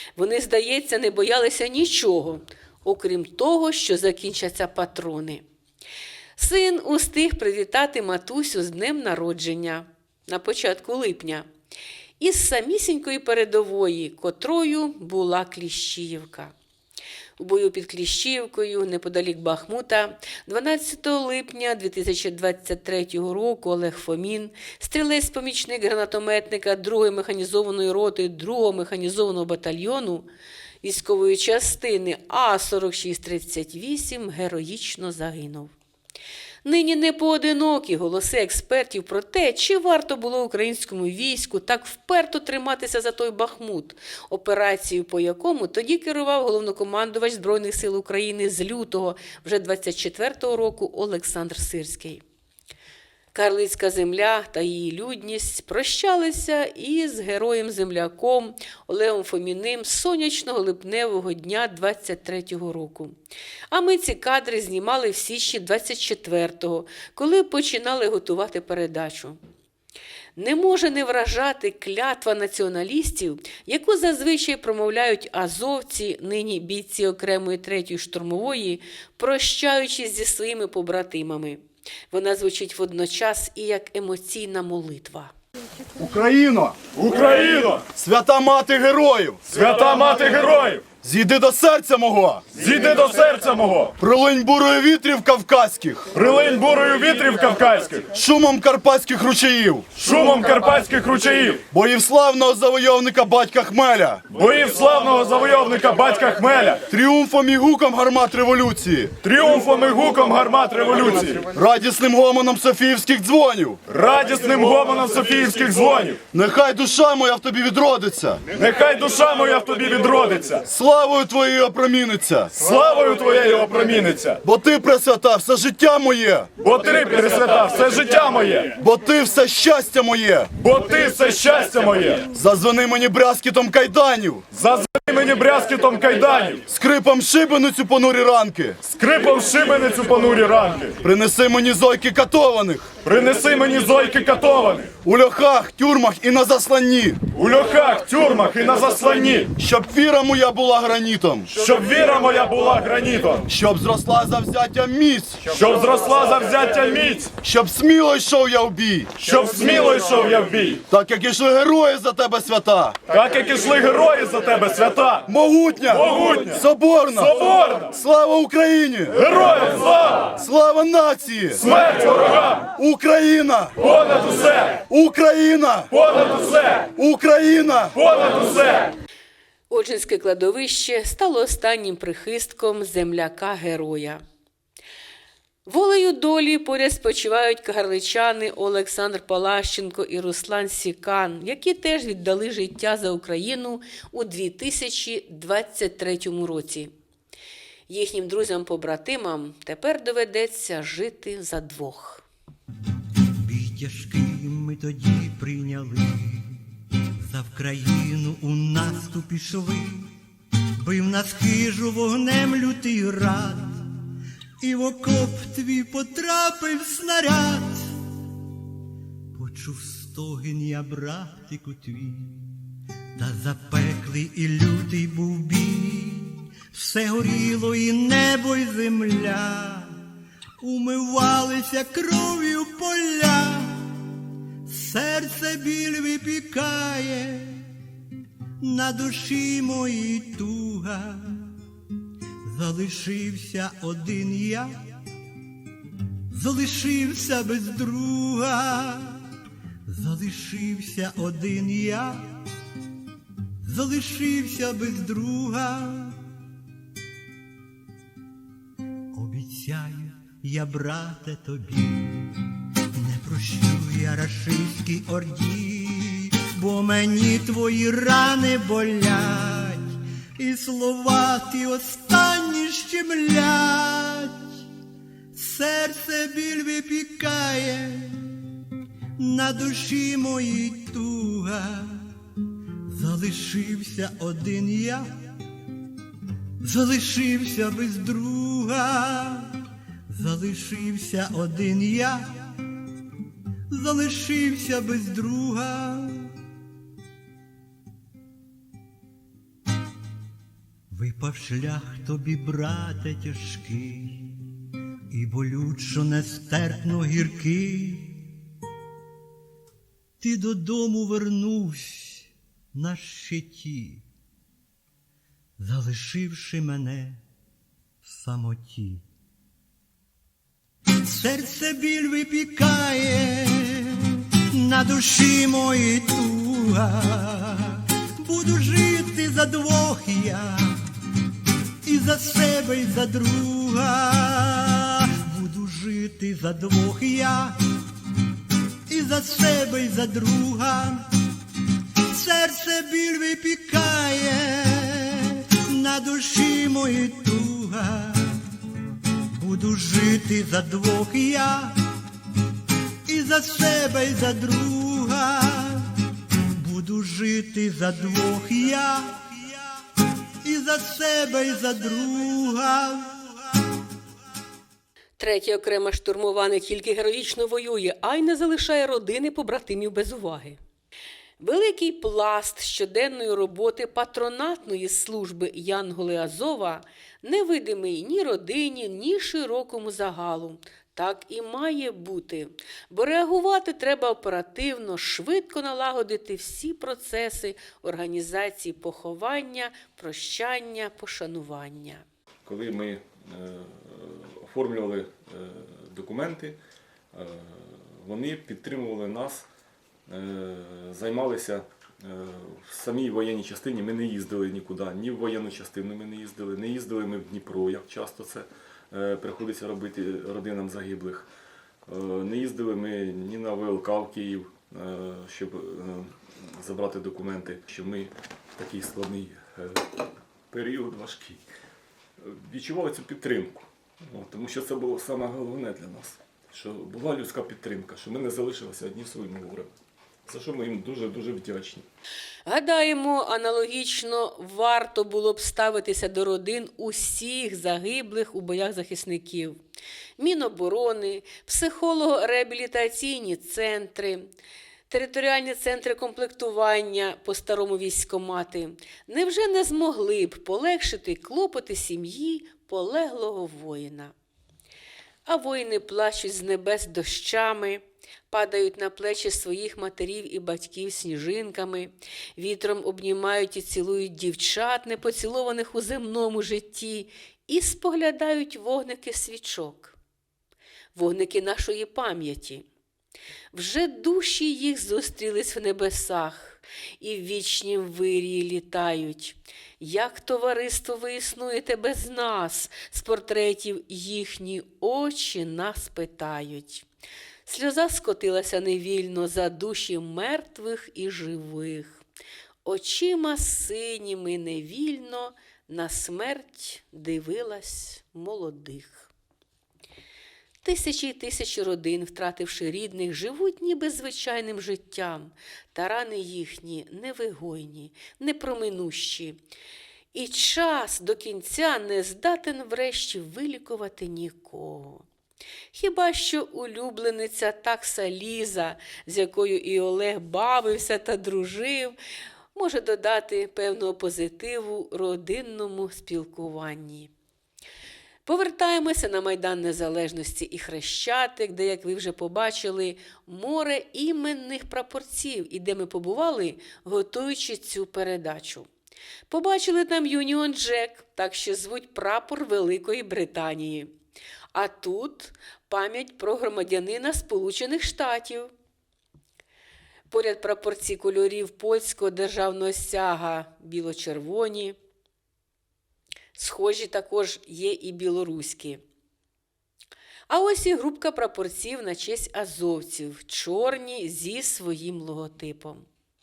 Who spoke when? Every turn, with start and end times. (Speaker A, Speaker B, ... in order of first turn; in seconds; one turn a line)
Speaker A: 0.1-5.4
Speaker A: 6.4-11.5
Speaker A: 12.2-16.5
Speaker A: 17.4-30.3
Speaker A: 30.8-35.7
Speaker A: 36.6-52.2
Speaker A: 53.3-63.1
Speaker A: 63.7-69.4
Speaker A: 70.4-85.3
Speaker B: 86.0-86.8
Speaker C: 86.9-87.8
Speaker B: 87.9-89.4
Speaker C: 89.5-90.8
Speaker B: 91.0-92.4
Speaker C: 92.5-93.9
Speaker B: 94.0-96.1
Speaker C: 96.1-98.1
Speaker B: 98.1-99.9
Speaker C: 100.0-101.6
Speaker B: 101.7-104.2
Speaker C: 104.3-106.8
Speaker B: 106.9-109.1
Speaker C: 109.2-111.5
Speaker B: 111.5-113.8
Speaker C: 113.9-116.2
Speaker B: 116.3-118.4
Speaker C: 118.5-120.6
Speaker B: 120.7-122.5
Speaker C: 122.6-124.4
Speaker B: 124.4-126.5
Speaker C: 126.6-128.7
Speaker B: 128.8-130.5
Speaker C: 130.6-132.2
Speaker B: 132.3-134.4
Speaker C: 134.5-136.6
Speaker B: 136.7-138.8
Speaker C: 138.8-141.0
Speaker B: 141.0-142.9
Speaker C: 143.0-144.9
Speaker B: 145.0-147.2
Speaker C: 147.3-149.5
Speaker B: 149.6-151.5
Speaker C: 151.5-153.4
Speaker B: 153.5-155.4
Speaker C: 155.4-157.3
Speaker B: 157.4-159.2
Speaker C: 159.2-160.8
Speaker B: 160.9-163.0
Speaker C: 163.1-165.2
Speaker B: 165.3-169.2
Speaker C: 165.9-166.6
Speaker C: 167.2-167.9
Speaker C: 169.1-170.3
Speaker B: 170.3-171.7
Speaker C: 171.6-172.6
Speaker B: 172.6-173.8
Speaker C: 173.8-174.8
Speaker B: 174.9-175.9
Speaker C: 175.9-176.8
Speaker B: 176.9-178.0
Speaker C: 178.0-178.9
Speaker A: 179.7-184.2
Speaker A: 185.7-196.9
Speaker A: 197.9-202.2
Speaker D: 203.4-206.6
Speaker D: 207.2-210.1
Speaker D: 210.8-213.9
Speaker D: 214.6-218.0
Speaker D: 219.3-222.5
Speaker D: 223.2-230.0
Speaker D: 230.6-233.9
Speaker D: 234.7-237.6
Speaker D: 238.6-241.5
Speaker D: 242.4-244.8
Speaker D: 246.3-249.2
Speaker D: 249.9-252.3
Speaker D: 253.6-256.2
Speaker D: 259.1-262.4
Speaker D: 262.9-274.5
Speaker D: 275.3-278.2
Speaker D: 279.2-282.1
Speaker D: 282.9-285.1
Speaker D: 286.6-292.5
Speaker D: 293.7-296.3
Speaker D: 300.9-304.4
Speaker D: 305.1-308.3
Speaker D: 310.2-314.0
Speaker D: 315.6-317.2
Speaker D: 318.0-319.1
Speaker D: 321.0-330.8
Speaker D: 331.8-337.6
Speaker D: 338.9-341.1
Speaker D: 342.1-348.4
Speaker D: 349.3-351.8
Speaker D: 353.1-355.9
Speaker D: 356.5-359.3
Speaker D: 360.4-363.4
Speaker A: 365.2-370.6
Speaker A: 371.4-392.0
Speaker E: 392.4-396.6
Speaker E: 397.1-399.5
Speaker E: 400.1-411.3
Speaker E: 411.9-421.4
Speaker E: 422.2-429.7
Speaker E: 430.2-431.9
Speaker A: 432.4-439.6
Speaker A: 440.2-444.3
Speaker A: 444.9-454.1
Speaker A: 455.2-469.9
Speaker A: 470.9-472.6
Speaker A: 473.5-486.9
Speaker A: 487.4-492.0
Speaker A: 492.6-499.1
Speaker A: 500.6-509.4
Speaker A: 510.1-515.1
Speaker A: 515.7-522.0
Speaker A: 522.5-527.1
Speaker A: 528.2-538.7
Speaker A: 539.3-543.9
Speaker A: 544.5-548.5
Speaker A: 550.1-554.8
Speaker A: 556.3-558.8
Speaker A: 560.3-565.9